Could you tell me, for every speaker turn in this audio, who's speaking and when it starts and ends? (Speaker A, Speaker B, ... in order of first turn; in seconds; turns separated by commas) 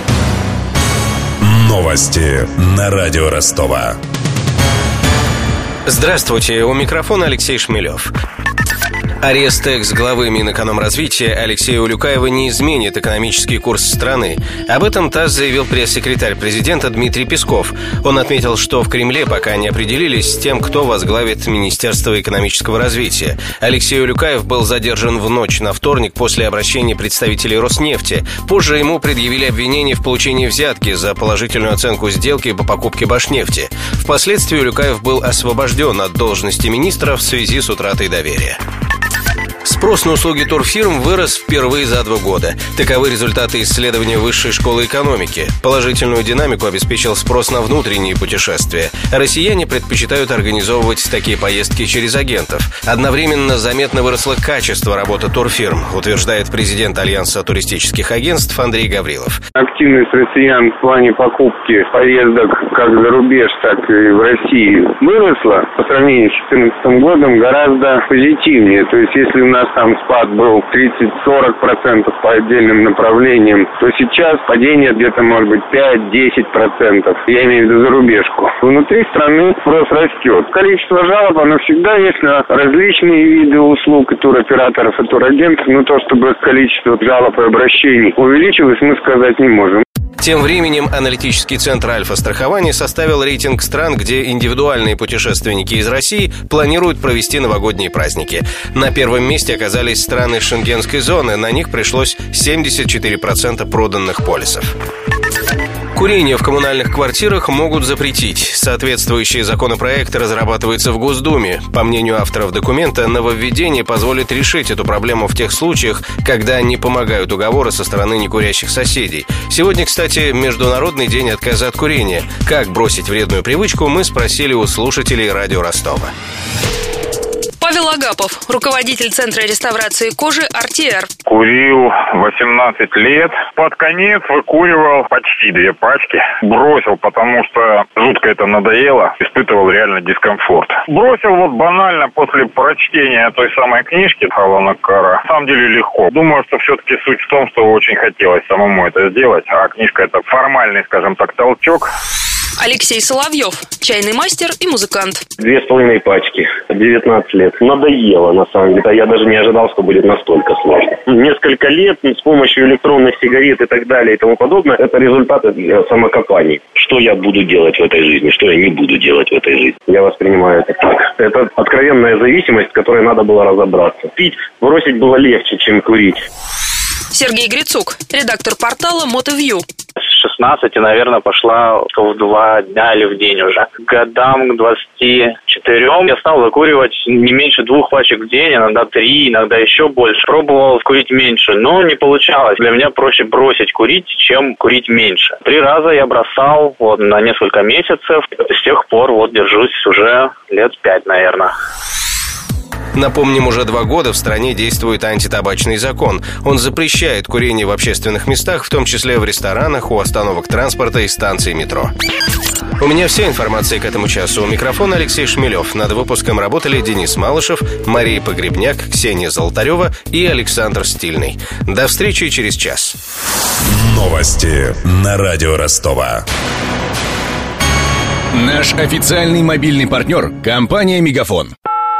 Speaker A: 1.5-3.9, Speaker B: 5.8-8.1, Speaker B: 9.2-38.6, Speaker B: 39.6-59.4, Speaker C: 59.5-89.8, Speaker B: 90.2-104.7, Speaker B: 105.9-126.1, Speaker D: 127.6-131.1, Speaker E: 131.2-151.9, Speaker D: 152.6-155.2, Speaker F: 155.4-176.2, Speaker D: 177.1-179.6, Speaker G: 180.0-201.5, Speaker B: 202.9-211.9, Speaker B: 212.8-223.0, Speaker A: 223.9-226.2, Speaker H: 228.3-231.5